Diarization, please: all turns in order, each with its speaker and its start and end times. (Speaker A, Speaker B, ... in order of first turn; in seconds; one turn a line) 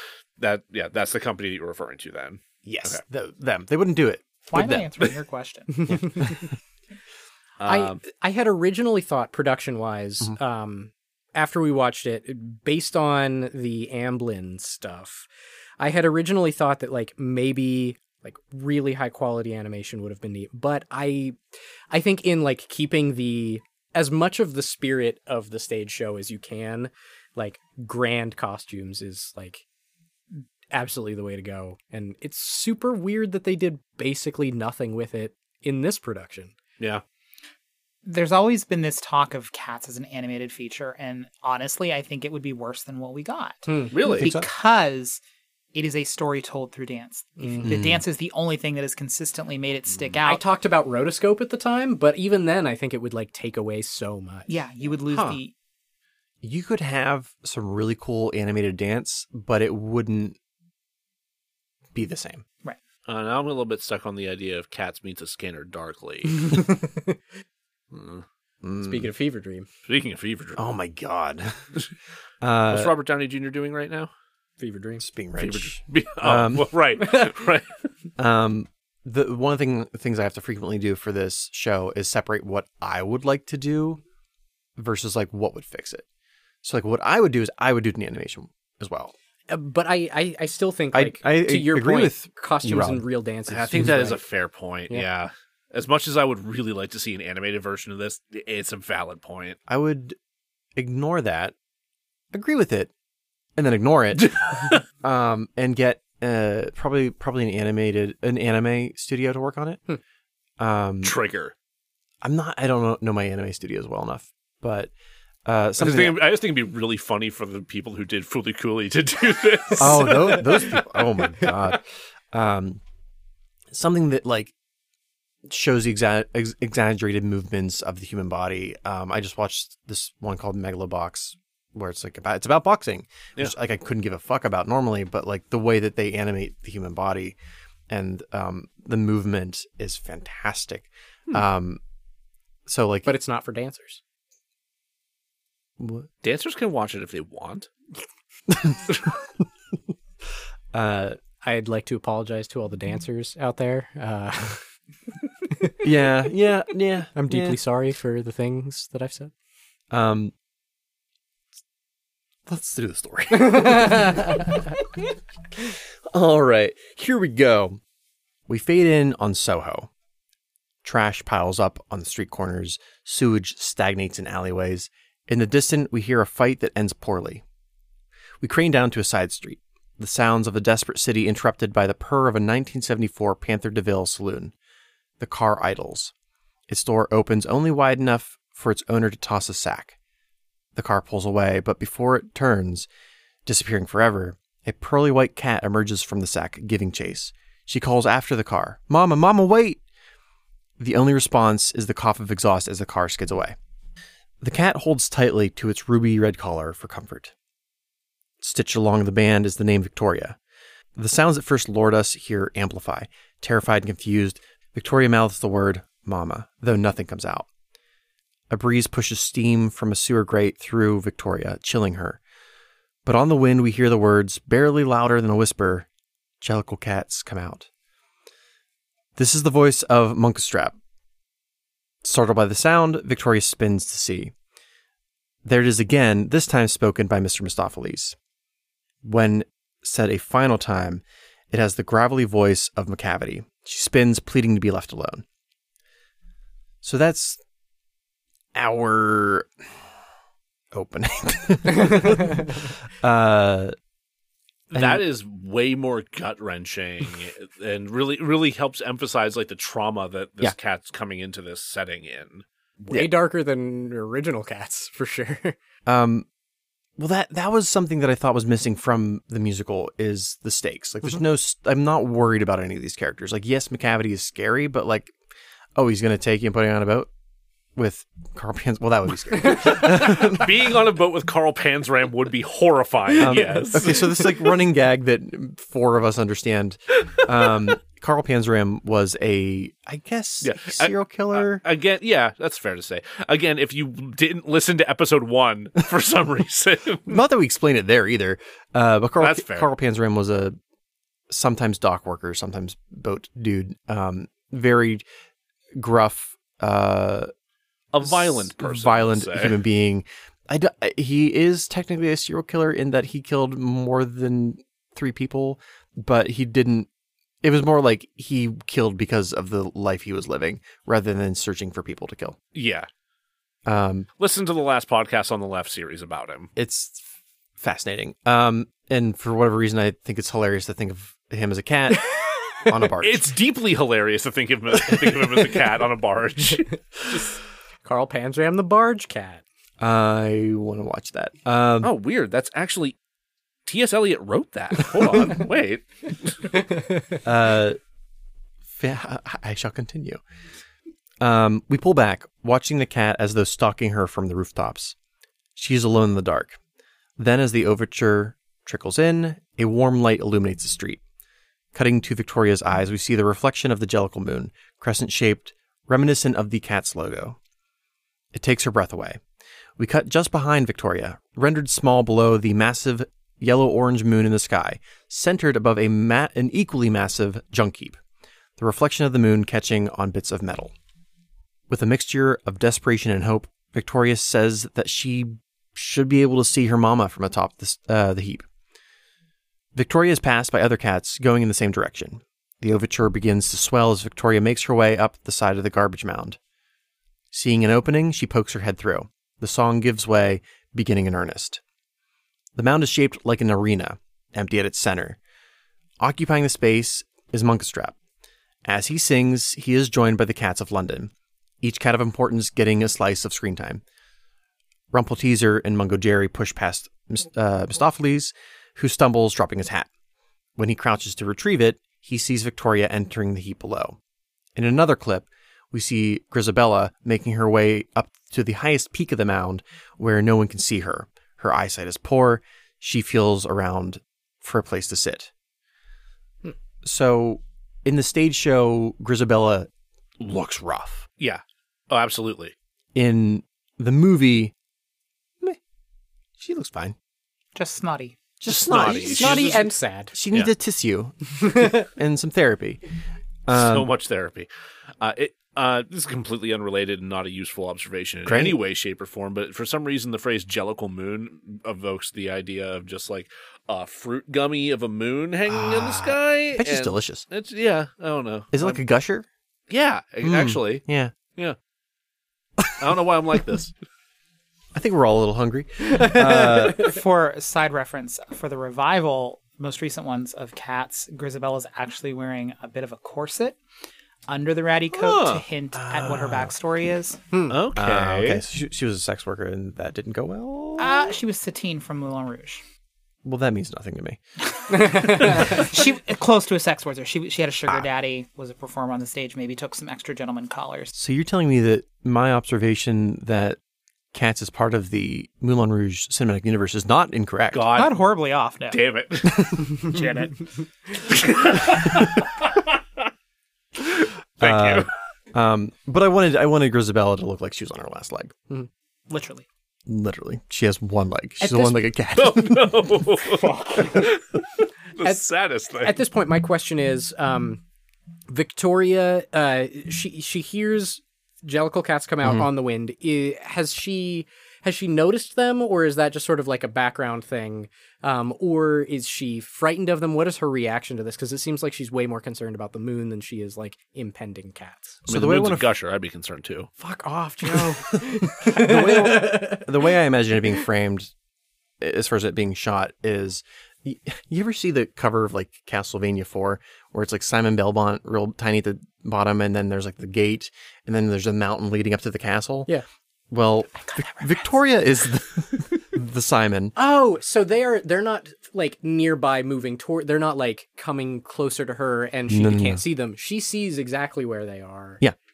Speaker A: 0.4-3.0
Speaker B: 2.6-5.0
Speaker C: 4.5-6.1
Speaker B: 5.9-6.5
Speaker D: 5.9-6.3
Speaker A: 7.6-8.0
Speaker D: 7.6-15.3
Speaker D: 15.8-21.4
Speaker D: 21.9-29.6
Speaker D: 30.7-36.5
Speaker C: 38.0-45.2
Speaker D: 43.7-44.0
Speaker A: 43.9-44.3
Speaker B: 44.2-44.5
Speaker C: 45.7-50.4
Speaker D: 47.4-47.7
Speaker B: 47.6-48.0
Speaker D: 50.2-54.5
Speaker C: 54.5-55.5
Speaker B: 56.4-60.4
Speaker B: 61.9-62.4
Speaker A: 63.0-66.7
Speaker D: 66.5-67.1
Speaker A: 67.9-68.2
Speaker B: 68.6-69.1
Speaker D: 68.8-69.7
Speaker A: 69.8-70.6
Speaker B: 70.5-71.7
Speaker B: 72.4-72.9
Speaker A: 72.7-74.1
Speaker D: 74.6-75.0
Speaker B: 75.0-76.7
Speaker A: 75.4-77.7
Speaker B: 78.2-84.0
Speaker B: 84.8-86.0
Speaker B: 86.6-89.1
Speaker D: 89.5-94.2
Speaker B: 90.9-93.0
Speaker A: 93.5-99.6
Speaker B: 93.7-94.0
Speaker B: 99.7-100.2
Speaker B: 100.8-101.5
Speaker B: 102.3-102.9
Speaker B: 103.6-104.4
Speaker A: 104.2-104.8
Speaker B: 105.0-109.8
Speaker B: 110.6-111.2
Speaker A: 111.0-111.5
Speaker B: 112.2-114.9
Speaker B: 115.5-116.2
Speaker A: 115.8-120.8
Speaker B: 119.8-122.8
Speaker B: 123.7-124.5
Speaker B: 125.5-137.3
Speaker B: 137.9-141.8
Speaker B: 142.7-143.1
Speaker D: 143.1-144.0
Speaker B: 145.8-146.1
Speaker A: 146.2-147.7
Speaker B: 148.5-148.8
Speaker B: 150.7-151.2
Speaker D: 151.4-154.6
Speaker B: 155.8-157.6
Speaker D: 157.1-159.3
Speaker B: 159.9-160.3
Speaker B: 162.5-164.8
Speaker D: 163.5-164.2
Speaker B: 165.6-167.8
Speaker B: 168.5-169.9
Speaker B: 170.8-177.4
Speaker B: 178.4-184.5
Speaker B: 185.2-186.1
Speaker B: 186.7-189.9
Speaker B: 190.7-192.9
Speaker B: 193.4-199.8
Speaker B: 200.8-203.6
Speaker B: 204.4-207.3
Speaker B: 208.4-210.4
Speaker B: 210.9-217.5
Speaker B: 218.5-222.2
Speaker B: 223.0-225.9
Speaker B: 226.4-227.7
Speaker B: 229.2-230.8
Speaker B: 232.0-234.3
Speaker B: 235.4-238.2
Speaker B: 239.0-245.2
Speaker B: 246.8-247.4
Speaker B: 248.5-249.5
Speaker B: 250.7-253.7
Speaker A: 254.7-262.9
Speaker B: 254.7-255.0
Speaker D: 262.9-265.6
Speaker B: 265.9-266.2
Speaker B: 267.0-275.1
Speaker B: 275.8-277.1
Speaker B: 277.7-280.5
Speaker A: 279.5-284.2
Speaker B: 283.2-291.6
Speaker D: 283.2-283.9
Speaker A: 290.4-297.2
Speaker B: 297.1-300.6
Speaker A: 299.2-299.7
Speaker B: 301.3-305.0
Speaker B: 305.8-307.3
Speaker A: 307.9-309.6
Speaker B: 308.0-316.9
Speaker B: 317.4-322.4
Speaker A: 322.5-322.9
Speaker B: 323.6-324.1
Speaker A: 324.2-326.5
Speaker B: 326.6-327.0
Speaker B: 327.6-333.3
Speaker A: 333.0-337.4
Speaker D: 337.8-339.4
Speaker B: 339.8-341.9
Speaker A: 341.8-342.9
Speaker A: 343.6-346.6
Speaker B: 347.2-347.8
Speaker B: 348.7-350.2
Speaker B: 351.2-354.9
Speaker B: 355.6-356.6
Speaker B: 357.2-361.0
Speaker B: 361.7-367.4
Speaker B: 368.3-369.2
Speaker B: 369.8-378.0
Speaker B: 378.6-380.7
Speaker B: 381.7-388.4
Speaker B: 389.7-396.4
Speaker B: 397.3-401.6
Speaker B: 402.6-405.2
Speaker B: 406.0-407.9
Speaker B: 408.6-413.8
Speaker B: 414.9-419.9
Speaker B: 420.6-424.0
Speaker B: 424.5-435.3
Speaker B: 436.8-441.1
Speaker A: 441.2-442.5
Speaker B: 442.9-444.5
Speaker B: 446.4-446.9
Speaker C: 447.5-448.2
Speaker B: 448.4-452.8
Speaker A: 448.5-449.6
Speaker D: 448.7-450.1
Speaker B: 453.5-453.9
Speaker A: 453.5-454.5
Speaker A: 455.0-468.8
Speaker B: 458.2-458.6
Speaker B: 465.5-467.2
Speaker B: 468.5-469.2
Speaker A: 469.7-470.8
Speaker B: 470.2-471.1
Speaker A: 472.7-473.7
Speaker B: 474.7-476.9
Speaker D: 476.0-476.2
Speaker C: 476.7-483.6
Speaker C: 484.3-487.2
Speaker A: 484.9-485.4
Speaker B: 485.7-486.5
Speaker A: 487.5-488.4
Speaker B: 487.7-491.1
Speaker C: 490.8-492.6
Speaker B: 493.2-494.2
Speaker C: 494.5-500.9
Speaker B: 500.9-503.6
Speaker B: 504.1-507.7
Speaker A: 507.5-508.1
Speaker C: 507.7-508.8
Speaker A: 508.7-509.9
Speaker C: 509.6-510.5
Speaker A: 511.0-512.6
Speaker A: 513.8-514.9
Speaker B: 514.4-518.3
Speaker C: 519.1-519.5
Speaker B: 519.9-522.8
Speaker D: 521.4-521.7
Speaker A: 522.1-524.4
Speaker A: 525.0-526.0
Speaker D: 525.0-527.6
Speaker D: 528.3-545.0
Speaker B: 532.2-532.5
Speaker B: 545.1-545.6
Speaker A: 545.1-546.7
Speaker B: 546.8-551.1
Speaker D: 547.4-549.7
Speaker B: 551.8-562.7
Speaker B: 563.3-566.7
Speaker C: 563.8-564.5
Speaker D: 566.8-575.0
Speaker B: 572.3-572.8